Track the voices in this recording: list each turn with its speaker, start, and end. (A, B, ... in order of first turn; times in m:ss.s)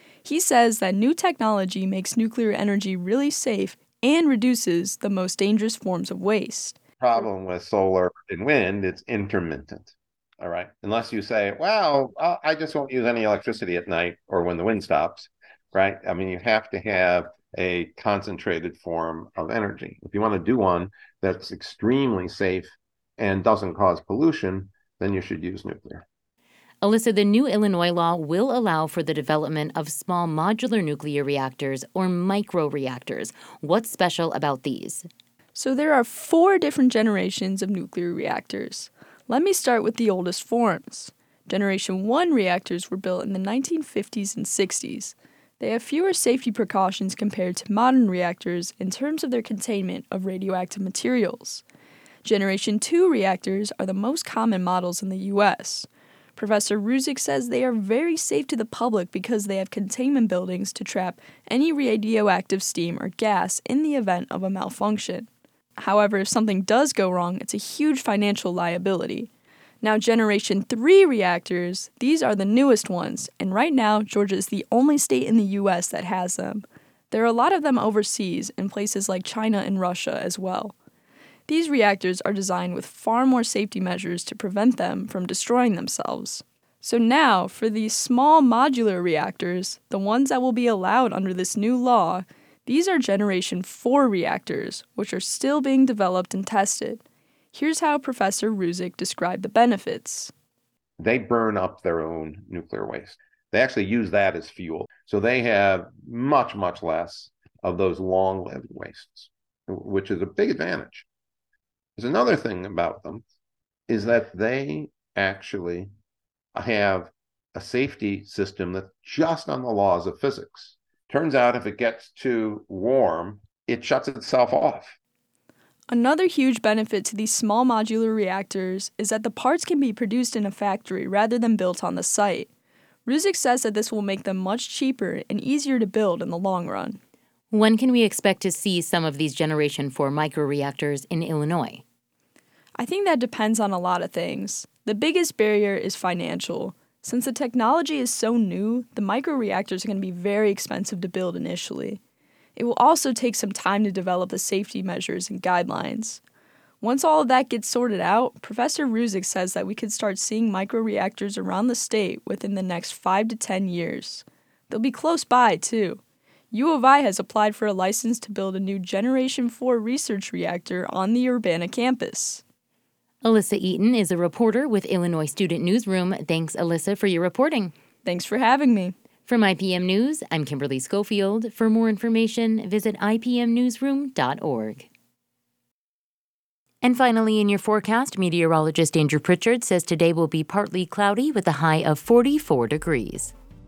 0:00.2-0:06.8 A
0:07.0-0:26.0 B
0:26.8-0:35.1 C
0:35.6-0:51.6 A
0:52.2-1:09.3 A
1:09.8-1:20.7 A
1:21.5-1:37.0 A
1:37.5-1:40.3 A
1:41.0-1:51.0 B
1:52.0-1:53.2 B
1:53.9-1:55.9 B
1:56.6-2:04.9 B
2:05.9-2:12.5 A
2:13.1-2:17.0 A
2:17.5-2:21.8 C
2:22.8-2:32.0 A
2:32.6-2:36.2 A
2:36.8-2:46.0 A
2:46.5-2:52.4 A
2:53.2-2:57.7 C
2:58.0-2:58.9 A
2:59.2-3:04.9 C
3:06.8-3:13.3 C